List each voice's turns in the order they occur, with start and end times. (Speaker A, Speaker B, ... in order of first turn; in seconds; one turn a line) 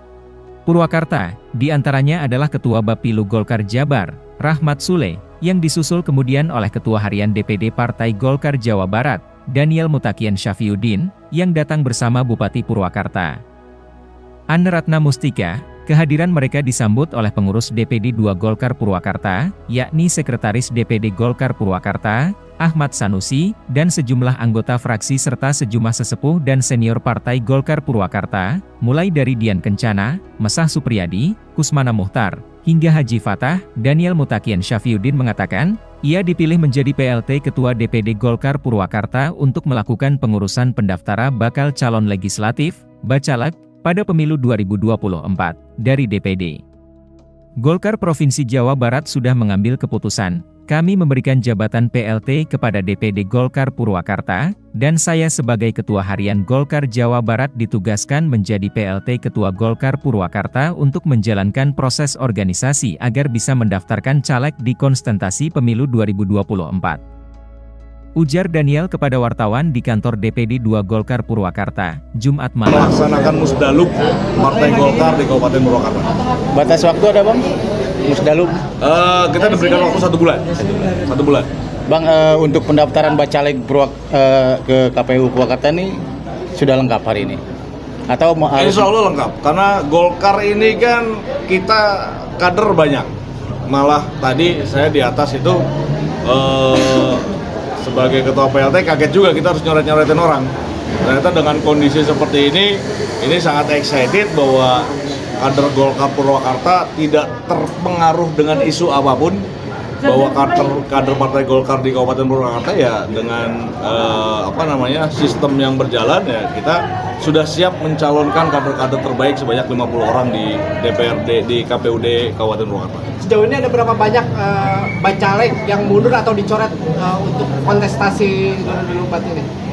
Speaker A: 0.7-13.4
Speaker A: 14.5-46.6
Speaker A: 47.6-67.0
Speaker A: 68.2-72.9
Speaker B: 72.7-76.1
Speaker C: 76.5-77.5
Speaker C: 78.0-78.5
Speaker B: 78.8-80.5
Speaker C: 80.6-80.9
Speaker B: 81.1-81.5
Speaker C: 81.9-86.0
Speaker C: 86.5-87.4
Speaker C: 88.1-88.9
Speaker B: 88.5-93.1
Speaker B: 93.7-95.6
Speaker B: 96.2-97.3
Speaker B: 97.8-100.5
Speaker B: 101.0-109.4
Speaker B: 110.0-123.1
Speaker D: 123.2-129.5